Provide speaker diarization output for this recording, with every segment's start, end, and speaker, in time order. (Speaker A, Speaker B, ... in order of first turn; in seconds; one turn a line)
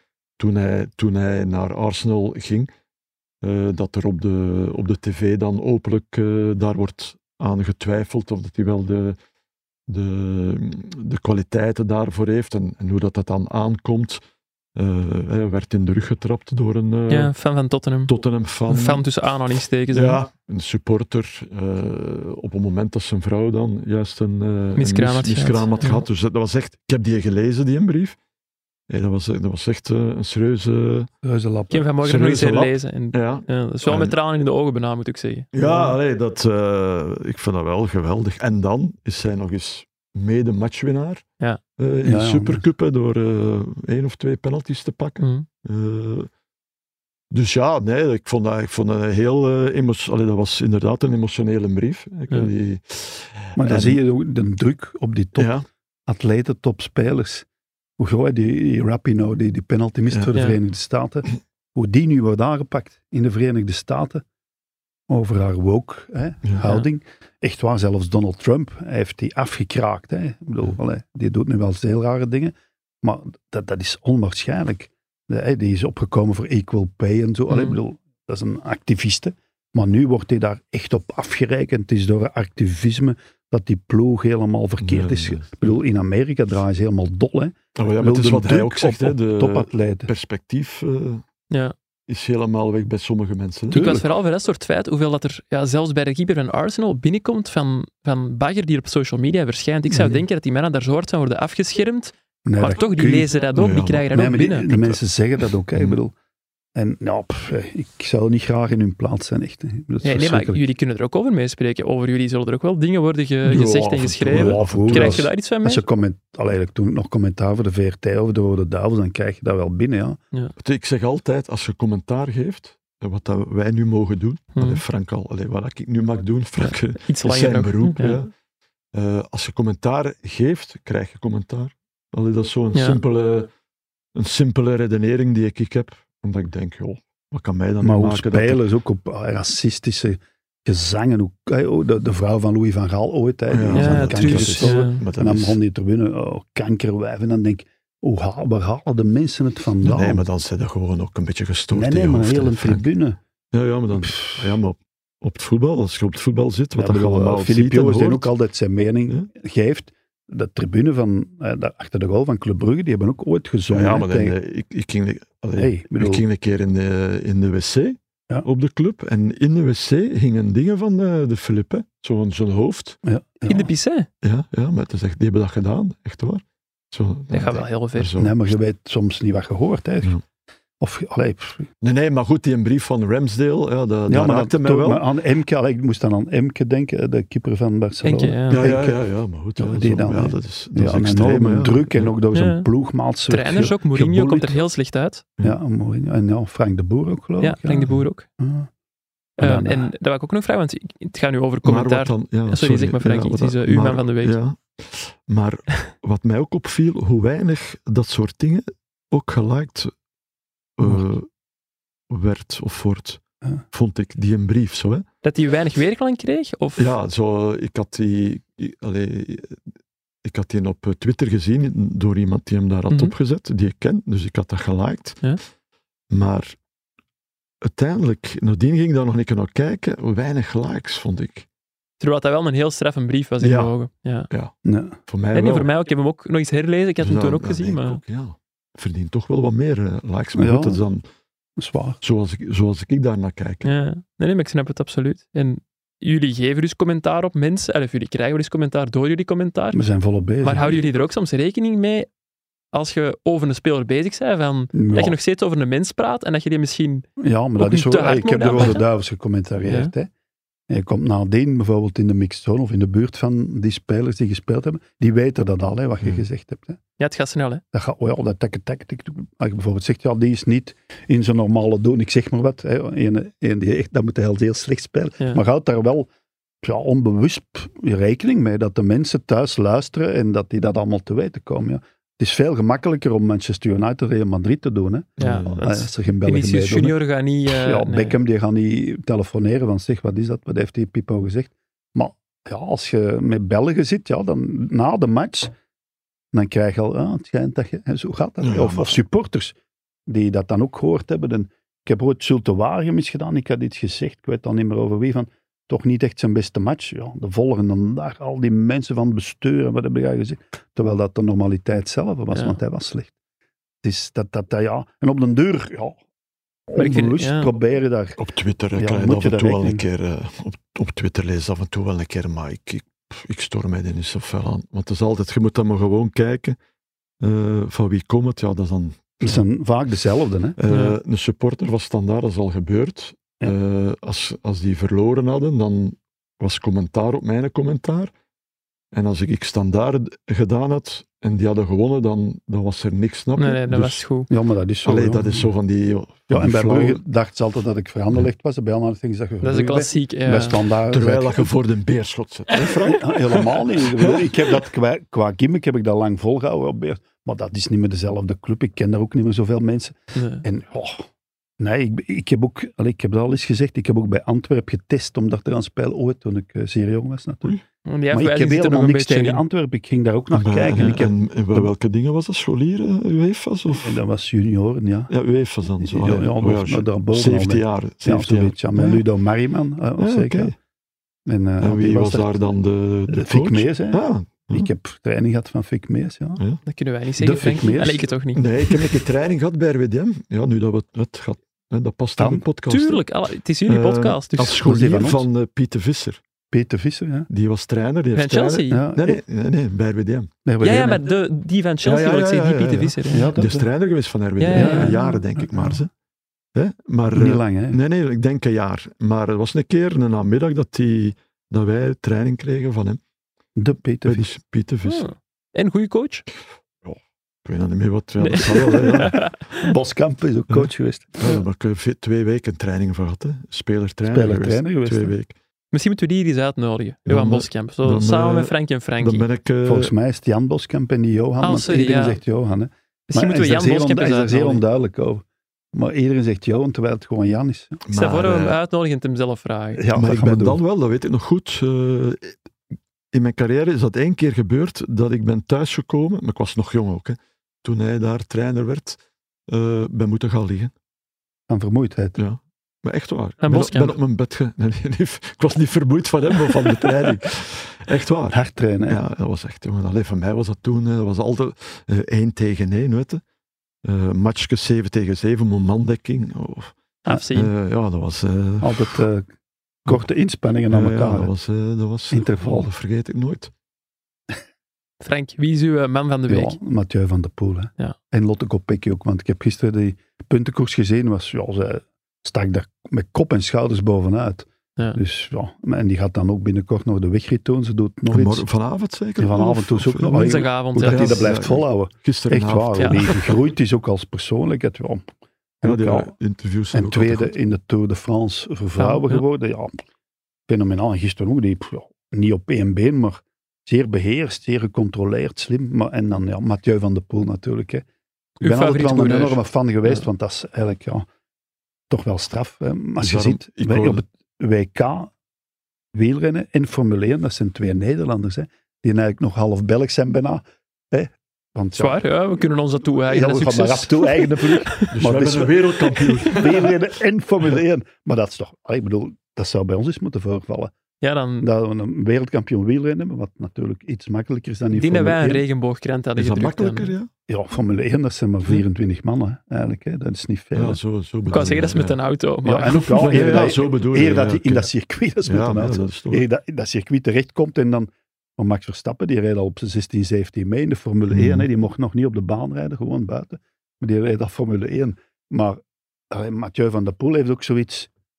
Speaker A: 0.4-2.7
Speaker A: 3.4-9.2
Speaker A: 9.9-14.2
Speaker A: 14.8-17.3
Speaker B: 17.1-18.1
Speaker A: 18.1-19.0
Speaker B: 18.7-20.2
Speaker A: 19.9-28.1
Speaker B: 24.8-26.0
Speaker A: 28.9-31.1
Speaker C: 31.2-31.9
Speaker B: 31.7-35.5
Speaker A: 32.0-34.1
Speaker A: 35.5-41.2
Speaker C: 35.6-35.9
Speaker A: 41.8-46.3
Speaker C: 42.0-42.6
Speaker B: 45.2-45.5
Speaker A: 47.3-54.0
Speaker C: 53.5-55.5
Speaker A: 55.4-55.6
Speaker C: 56.1-57.5
Speaker C: 58.0-64.2
Speaker C: 65.1-90.1
Speaker B: 77.5-77.8
Speaker A: 84.8-85.7
Speaker A: 87.8-91.2
Speaker A: 92.1-93.9
Speaker C: 93.7-94.0
Speaker B: 93.7-104.7
Speaker C: 99.9-100.2
Speaker C: 102.5-103.3
Speaker A: 103.5-104.1
Speaker C: 104.1-106.1
Speaker A: 104.7-105.0
Speaker A: 105.7-106.0
Speaker C: 106.8-110.6
Speaker B: 110.0-115.8
Speaker A: 113.4-115.3
Speaker C: 114.3-120.2
Speaker A: 120.6-128.3
Speaker B: 124.5-124.8
Speaker B: 126.6-128.2
Speaker A: 128.9-133.5
Speaker B: 132.7-133.0
Speaker A: 134.1-138.6
Speaker C: 137.8-150.2
Speaker A: 143.5-145.6
Speaker B: 143.7-145.0
Speaker A: 149.8-152.9
Speaker C: 151.7-153.2
Speaker A: 153.5-158.3
Speaker C: 156.8-164.3
Speaker A: 163.7-173.0
Speaker C: 165.6-166.2
Speaker C: 173.0-173.7
Speaker B: 173.5-174.1
Speaker A: 174.2-178.4
Speaker B: 177.3-178.1
Speaker C: 178.2-180.1
Speaker C: 180.8-181.7
Speaker A: 181.8-185.0
Speaker C: 184.1-189.0
Speaker B: 188.0-188.6
Speaker A: 188.5-192.1
Speaker C: 189.6-194.6
Speaker B: 192.3-192.7
Speaker B: 193.3-195.2
Speaker C: 195.4-198.7
Speaker B: 197.4-198.2
Speaker B: 199.4-204.3
Speaker C: 199.4-199.9
Speaker A: 201.6-209.9
Speaker A: 210.8-211.3
Speaker A: 212.1-215.0
Speaker B: 215.2-216.8
Speaker A: 216.8-219.6
Speaker A: 220.2-225.2
Speaker A: 226.1-226.6
Speaker A: 227.6-231.4
Speaker B: 232.0-234.3
Speaker A: 233.4-233.7
Speaker A: 234.3-234.5
Speaker C: 234.6-235.0
Speaker A: 235.1-235.7
Speaker B: 235.3-238.0
Speaker A: 237.0-241.0
Speaker C: 240.3-240.8
Speaker C: 241.6-242.0
Speaker A: 242.0-243.7
Speaker B: 243.6-249.8
Speaker C: 249.7-250.7
Speaker B: 250.4-252.1
Speaker B: 252.7-257.1
Speaker C: 254.7-255.2
Speaker C: 257.2-260.1
Speaker B: 257.6-258.9
Speaker B: 259.7-259.9
Speaker C: 260.7-266.8
Speaker B: 267.0-267.6
Speaker C: 267.7-276.1
Speaker C: 276.6-295.5
Speaker A: 285.2-285.6
Speaker B: 285.2-288.2
Speaker C: 296.3-299.5
Speaker A: 298.4-299.0
Speaker C: 300.1-313.1
Speaker B: 312.3-312.6
Speaker C: 313.8-316.0
Speaker C: 316.7-318.2
Speaker B: 316.8-317.5
Speaker A: 318.2-326.6
Speaker C: 318.7-319.8
Speaker A: 327.2-329.4
Speaker C: 329.2-330.6
Speaker A: 330.6-338.1
Speaker B: 330.7-331.0
Speaker A: 338.9-344.0
Speaker B: 343.4-344.3
Speaker C: 344.3-345.3
Speaker A: 344.8-347.0
Speaker C: 346.3-351.5
Speaker B: 349.4-350.6
Speaker A: 350.9-354.3
Speaker C: 352.8-361.1
Speaker B: 360.1-360.4
Speaker C: 361.6-367.6
Speaker B: 367.9-369.4
Speaker C: 368.1-371.7
Speaker A: 370.3-374.0
Speaker C: 373.7-375.1
Speaker A: 375.1-379.0
Speaker C: 375.8-380.5
Speaker A: 380.0-380.5
Speaker C: 381.2-382.5
Speaker A: 381.6-384.7
Speaker C: 383.1-386.4
Speaker B: 386.7-388.9
Speaker C: 387.2-388.1
Speaker A: 388.3-393.0
Speaker C: 392.2-392.4
Speaker B: 392.7-394.6
Speaker A: 393.6-396.2
Speaker C: 394.4-395.3
Speaker C: 396.5-397.3
Speaker A: 397.3-400.3
Speaker B: 398.1-398.8
Speaker C: 398.7-399.2
Speaker C: 400.4-401.0
Speaker B: 400.6-403.3
Speaker A: 401.8-405.9
Speaker C: 403.1-403.7
Speaker B: 404.4-405.0
Speaker C: 404.5-405.8
Speaker A: 406.5-413.0
Speaker C: 407.1-407.8
Speaker C: 413.6-414.2
Speaker A: 414.1-415.1
Speaker B: 414.8-416.2
Speaker A: 416.8-419.2
Speaker B: 418.2-419.6
Speaker C: 419.6-421.2
Speaker A: 420.5-425.3
Speaker C: 424.0-425.1
Speaker B: 425.7-429.3
Speaker A: 427.1-429.9
Speaker C: 429.6-437.8
Speaker B: 431.4-432.2
Speaker B: 433.1-434.6
Speaker A: 437.9-438.6
Speaker B: 437.9-439.8
Speaker C: 439.8-440.6
Speaker A: 439.9-442.4
Speaker A: 443.1-450.7
Speaker C: 451.5-452.2
Speaker A: 452.1-463.2
Speaker B: 453.4-454.0
Speaker B: 456.5-456.8
Speaker C: 458.3-459.0
Speaker A: 463.8-466.7
Speaker B: 467.0-467.5
Speaker A: 467.3-469.0
Speaker C: 468.6-469.3
Speaker C: 469.9-471.3
Speaker A: 470.7-473.5
Speaker C: 472.1-472.7
Speaker B: 475.0-476.6
Speaker C: 476.3-488.5
Speaker A: 488.1-493.3
Speaker C: 489.2-495.0
Speaker B: 490.1-491.2
Speaker B: 492.8-493.1
Speaker C: 495.6-496.1
Speaker A: 495.6-497.3
Speaker C: 496.7-499.9
Speaker B: 498.8-499.2
Speaker C: 500.5-507.9
Speaker B: 508.4-510.0
Speaker C: 508.4-511.1
Speaker C: 511.9-515.1
Speaker A: 513.0-514.0
Speaker C: 515.9-522.0
Speaker B: 521.8-524.9
Speaker C: 523.1-530.7
Speaker A: 524.9-526.7
Speaker B: 531.0-531.5
Speaker C: 531.4-535.4
Speaker B: 534.7-536.9
Speaker A: 536.1-537.1
Speaker C: 537.3-540.8
Speaker A: 540.5-542.0
Speaker B: 541.3-543.5
Speaker C: 542.4-557.9
Speaker A: 542.7-544.7
Speaker A: 545.2-546.2
Speaker A: 551.1-551.5